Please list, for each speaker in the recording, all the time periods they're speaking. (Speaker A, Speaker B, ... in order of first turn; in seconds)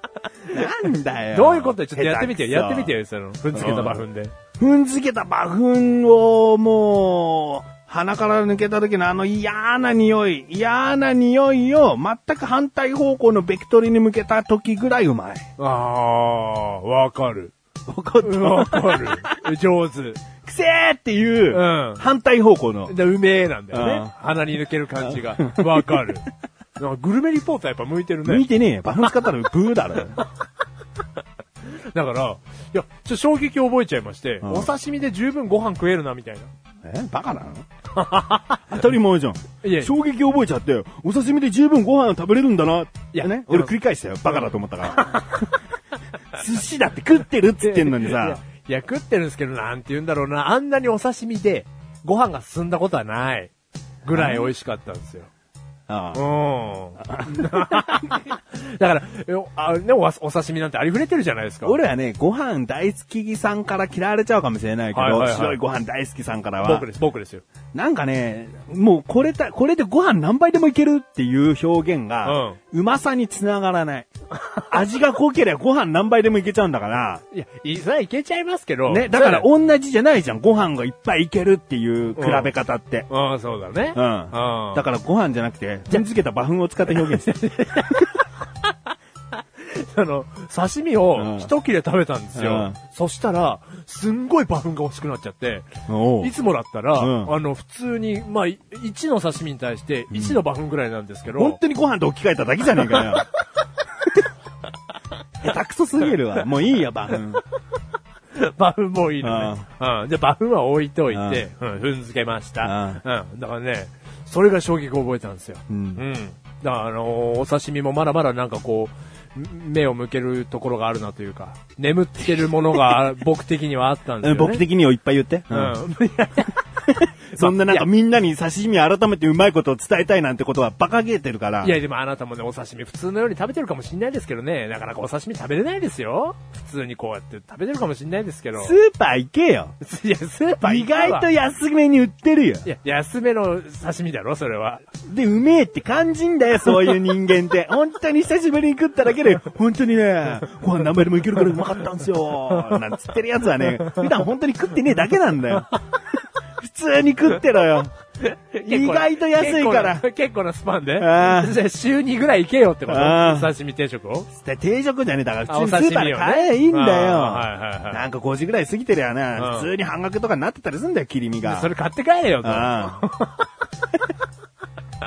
Speaker A: 0.4-0.7, 1.3-4.3, 15.6-17.5, 18.2-20.2, 21.5-22.1, 22.9-26.2, 26.8-28.4, 31.7-36.5, 37.9-38.6, 39.6-39.9, 43.1-43.7, 44.2-45.5, 47.6-53.5, 54.0-55.3, 56.1-61.8, 64.9-65.6, 66.6-67.4, 72.2-72.6, 77.3-79.5, 82.2-82.5, 83.1-84.8, 86.9-88.7, 89.6-95.7, 96.2-101.6, 102.8-103.2, 108.3-124.6, 125.5-127.9, 131.6-138.8, 139.8-141.2, 142.7-144.9, 158.3-164.3, 165.5-168.0, 169.4-169.7, 171.4-173.5
Speaker B: 0.5-2.9, 3.5-4.1, 4.6-15.5, 17.9-19.4, 20.4-23.0, 23.7-24.1, 25.0-25.9, 28.2-30.2, 34.4-34.7, 36.8-37.6, 38.7-45.5, 46.3-48.4, 54.1-54.5, 55.9-56.2, 57.0-58.1, 61.6-66.9, 67.7-74.1, 74.6-77.2, 78.9-83.1, 83.9-88.1, 91.2-91.5, 92.3-92.8, 95.9-96.3, 96.9-97.3, 100.1-100.4, 101.3-103.3, 105.4-107.4, 109.2-109.7, 111.1-111.4, 112.6-113.0, 115.7-116.0, 124.2-125.8, 126.9-131.8, 138.5-139.7, 140.6-142.7, 145.1-155.7, 156.6-157.9, 158.6-160.1, 161.0-161.6, 162.9-163.5, 164.3-171.7, 172.4-173.1